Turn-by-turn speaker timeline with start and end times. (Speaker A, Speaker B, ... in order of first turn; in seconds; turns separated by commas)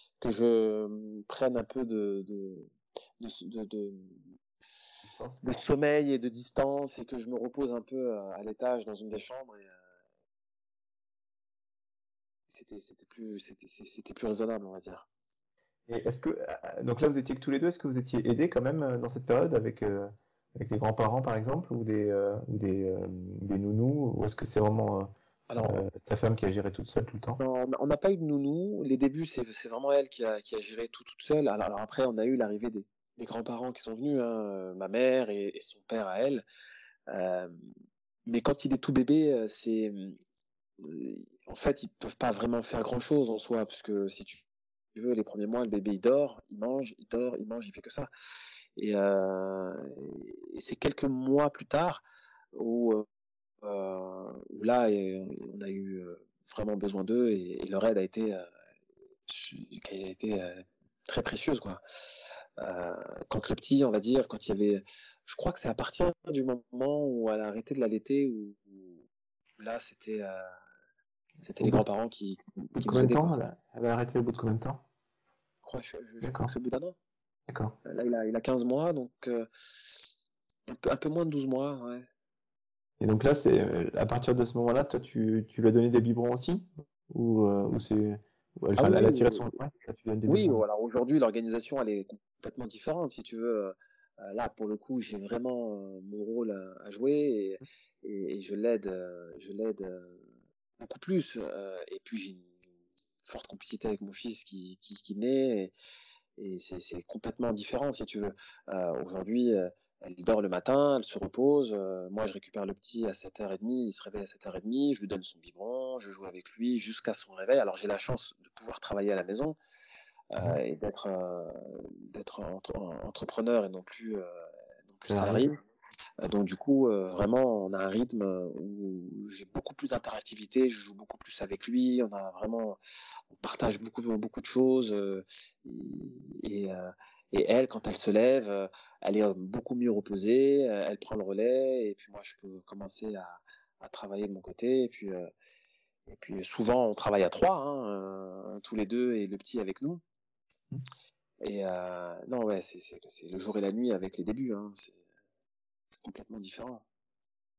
Speaker A: 0.2-4.2, Speaker B: 5.0-5.5, Speaker A: 5.4-9.8, Speaker A: 12.5-15.1, Speaker B: 15.9-27.4, Speaker A: 25.5-25.8, Speaker A: 27.4-36.4, Speaker A: 37.1-37.5, Speaker A: 38.3-40.2, Speaker A: 40.8-44.4, Speaker A: 45.0-48.1, Speaker A: 48.8-52.0, Speaker A: 52.5-53.0, Speaker A: 53.6-58.5, Speaker A: 59.3-61.8, Speaker A: 62.6-69.0, Speaker A: 69.6-70.4, Speaker A: 71.4-73.4, Speaker B: 72.8-74.8, Speaker A: 75.6-77.0, Speaker B: 76.2-76.5, Speaker B: 77.5-77.8, Speaker A: 77.8-79.5, Speaker A: 80.7-82.1, Speaker B: 83.0-90.6, Speaker A: 88.8-89.5, Speaker A: 90.3-100.2, Speaker A: 100.8-102.5, Speaker A: 103.2-105.7, Speaker A: 106.4-119.6, Speaker A: 120.3-124.3, Speaker A: 124.9-125.6, Speaker B: 125.1-125.4, Speaker A: 126.2-132.8, Speaker A: 133.3-145.3, Speaker A: 146.1-150.0, Speaker A: 151.4-155.0, Speaker A: 156.0-156.8